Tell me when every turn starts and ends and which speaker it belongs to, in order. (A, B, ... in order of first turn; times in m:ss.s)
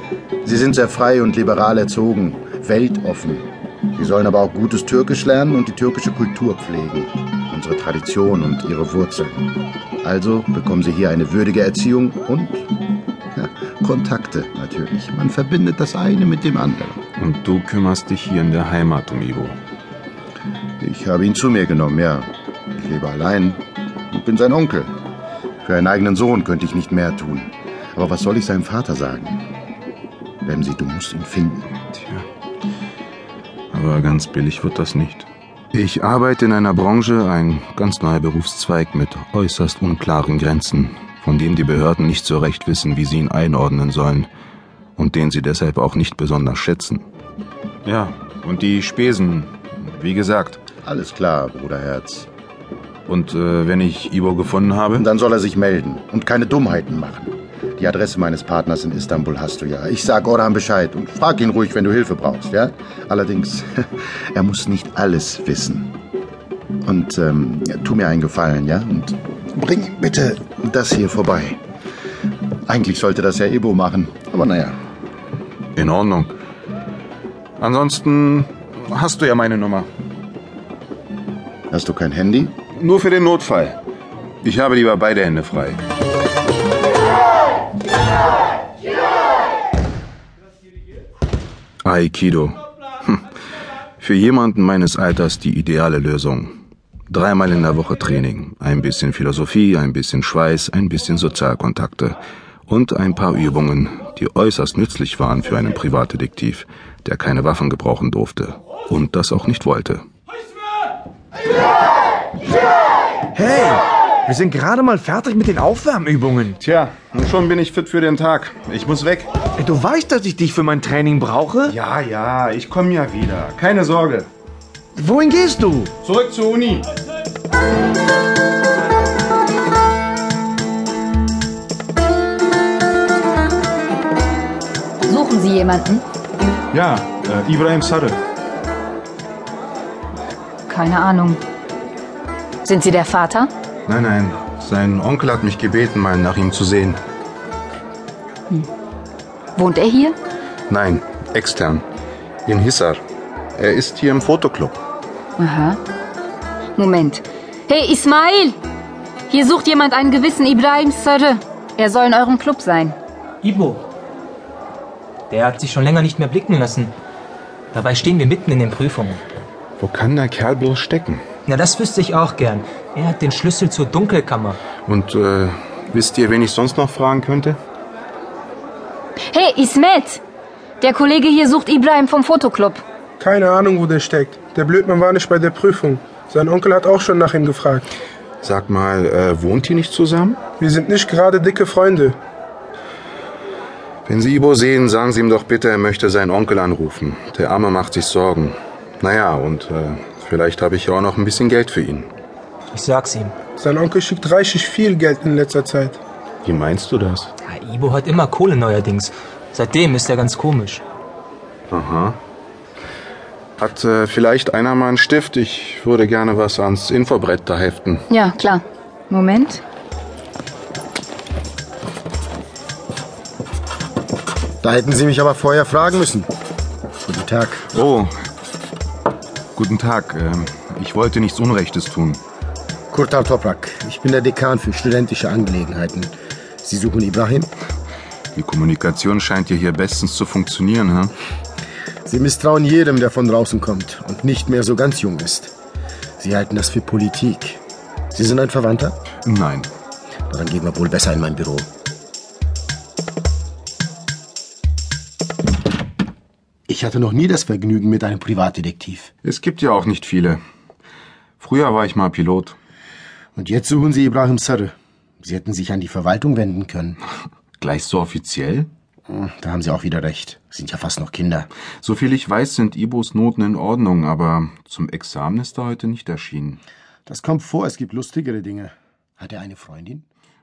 0:00.4-0:12.7 A
0:13.3-0:17.0 A
0:17.2-0:19.6 B
0:20.8-0:24.9 A
0:25.6-0:29.5 A
0:30.4-0:31.8 A
0:31.9-0:32.2 B
0:33.7-0:44.3 B
0:45.0-0:47.0 B
0:47.8-0:50.6 B
0:50.8-0:52.3 A
0:53.1-0:55.0 B
0:55.0-1:03.7 A
1:04.3-1:06.0 A
1:06.8-1:11.6 A
1:12.6-1:14.8 A
1:15.8-1:16.3 B
1:17.6-1:19.9 B
1:21.7-1:22.5 A
1:22.7-1:23.8 B
1:24.4-1:25.8 B
1:31.8-1:33.2 B
1:34.0-1:36.6 B
1:37.1-1:50.0 B
1:53.3-1:56.6 C
1:56.6-1:59.3 B
1:59.6-2:01.7 C
2:01.6-2:04.3 B
2:05.0-2:05.9 C
2:06.0-2:06.9 B
2:15.0-2:16.0 D
2:16.7-2:18.2 B
2:20.7-2:21.4 D
2:22.6-2:23.5 D
2:23.8-2:27.0 B
2:29.6-2:30.2 D
2:30.7-2:31.8 B
2:32.4-2:33.0 B
2:33.5-2:34.8 B
2:35.4-2:35.8 D
2:36.8-2:38.6 D
2:39.3-2:43.0 D
2:43.4-2:43.8 E
2:45.3-2:46.9 E
2:47.7-2:49.2 E
2:49.8-2:51.2 B
2:51.5-2:54.6 E
2:54.8-2:57.6 B
2:59.3-3:00.2 D
3:00.8-3:02.8 D
3:03.2-3:07.8 F
3:08.4-3:10.4 B
3:10.6-3:12.2 F
3:14.0-3:22.1 B
3:22.7-3:23.4 E
3:23.6-3:26.0 F
3:26.4-3:27.3 B
3:27.4-3:30.8 E
3:31.7-3:32.2 B
3:33.6-3:38.0 B
3:38.1-3:39.6 D
3:44.6-3:46.3 G
3:47.0-3:47.6 G
3:47.7-3:48.1 B
3:49.6-3:52.2 B
3:52.9-3:57.5 G
3:58.3-4:01.1 B
4:02.0-4:05.5 G
4:06.2-4:07.6 G
4:08.1-4:09.0 G
4:09.2-4:09.7 B
4:10.3-4:11.7 G
4:16.7-4:19.1 G
4:19.2-4:20.4 B
4:21.4-4:22.6 B
4:23.3-4:27.0 G
4:27.6-4:28.7 B
4:29.1-4:31.5 G
4:31.8-4:36.6 B
4:37.0-4:40.0 G